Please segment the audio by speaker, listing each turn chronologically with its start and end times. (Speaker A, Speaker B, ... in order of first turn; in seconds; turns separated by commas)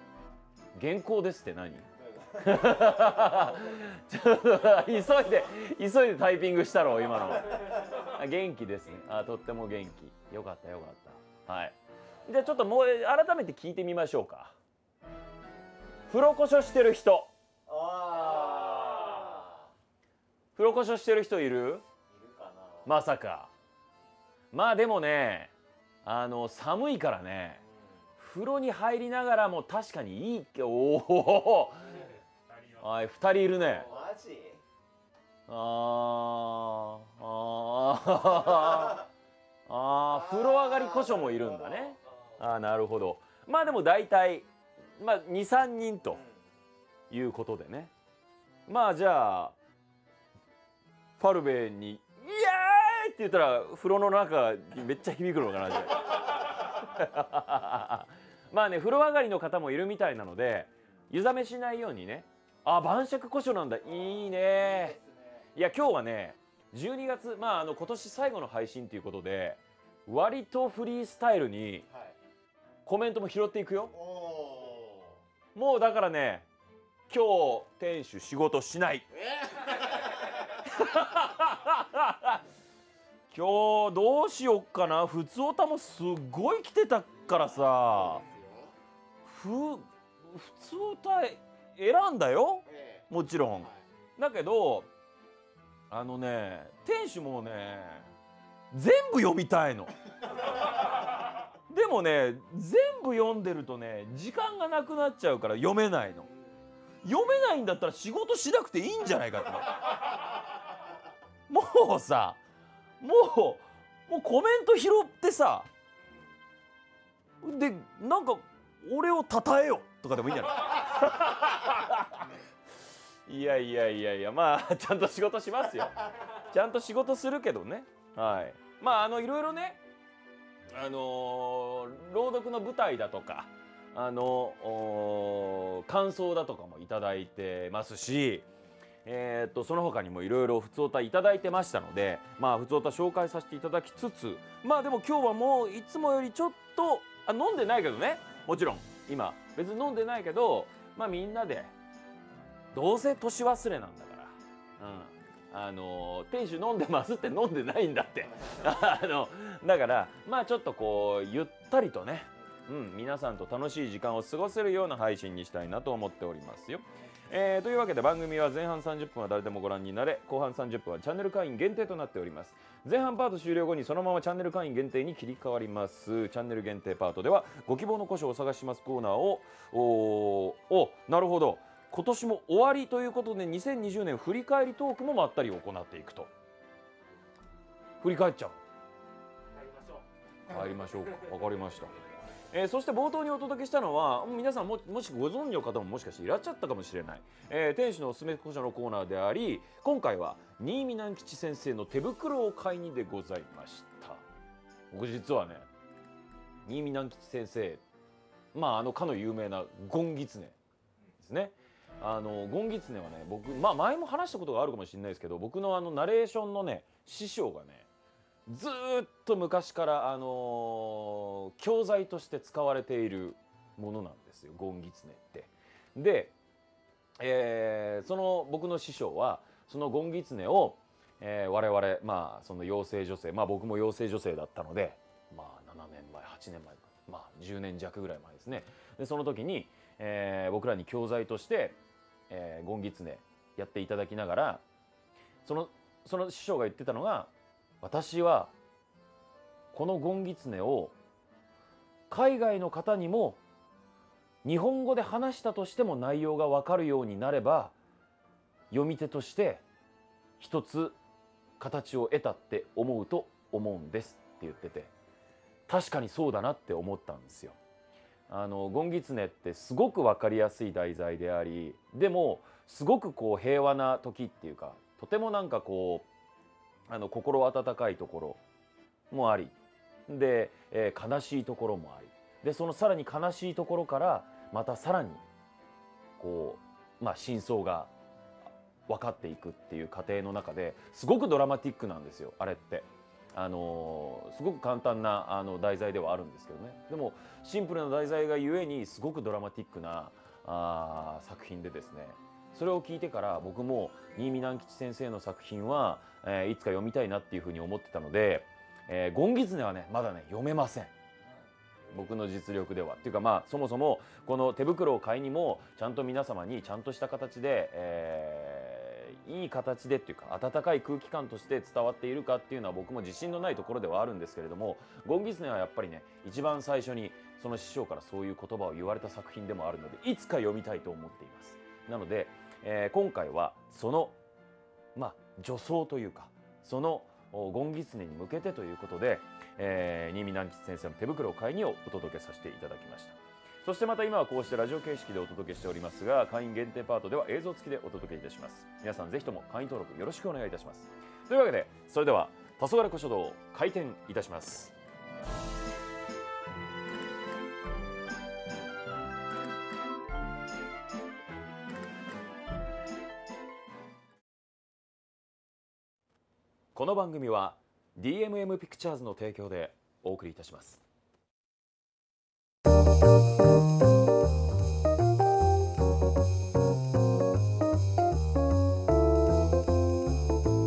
Speaker A: 0.8-14.6, Speaker B: 2.0-3.4, Speaker A: 16.1-17.3, Speaker B: 17.7-19.7, Speaker A: 20.6-21.9, Speaker B: 22.1-22.9, Speaker A: 22.9-23.5, Speaker A: 24.5-25.5, Speaker A: 26.1-27.6, Speaker B: 27.6-27.9, Speaker A: 28.2-32.1, Speaker A: 32.7-33.9, Speaker B: 33.8-34.6, Speaker A: 35.5-39.1, Speaker A: 39.7-46.2, Speaker B: 40.1-41.9, Speaker A: 47.1-47.9, Speaker A: 48.7-49.6, Speaker A: 51.2-65.0, Speaker B: 64.0-65.5, Speaker A: 65.5-71.9, Speaker B: 71.9-72.2, Speaker A: 72.9-73.9, Speaker B: 73.9-75.2, Speaker A: 75.5-76.5, Speaker A: 77.1-79.1, Speaker B: 79.2-80.1, Speaker A: 79.7-82.4, Speaker A: 83.3-88.2, Speaker B: 87.3-88.7, Speaker A: 89.2-94.9, Speaker B: 92.7-93.1, Speaker A: 95.9-98.1, Speaker A: 98.7-99.9, Speaker A: 101.7-106.3, Speaker A: 107.0-110.1, Speaker A: 111.5-112.4, Speaker A: 113.0-115.7, Speaker A: 117.4-122.3, Speaker A: 123.3-129.8, Speaker A: 130.7-138.5, Speaker A: 139.1-151.7, Speaker A: 152.7-186.3, Speaker A: 188.0-188.6, Speaker A: 190.5-191.9, Speaker A: 192.5-204.2, Speaker A: 204.9-205.7, Speaker A: 206.7-207.8, Speaker A: 208.5-210.6, Speaker A: 211.2-217.9, Speaker A: 218.5-226.3, Speaker A: 227.2-241.8, Speaker A: 242.3-244.6, Speaker A: 245.4-248.5, Speaker A: 249.7-250.9, Speaker A: 252.1-253.4, Speaker A: 254.4-257.8, Speaker A: 258.7-259.6, Speaker A: 260.4-261.0, Speaker A: 261.6-264.9, Speaker A: 265.7-267.6, Speaker A: 268.3-276.1, Speaker A: 276.9-278.4, Speaker A: 279.1-279.6, Speaker A: 280.1-285.2, Speaker A: 286.2-287.9, Speaker A: 288.9-310.9, Speaker A: 311.9-334.2, Speaker A: 334.9-354.8, Speaker A: 366.8-370.8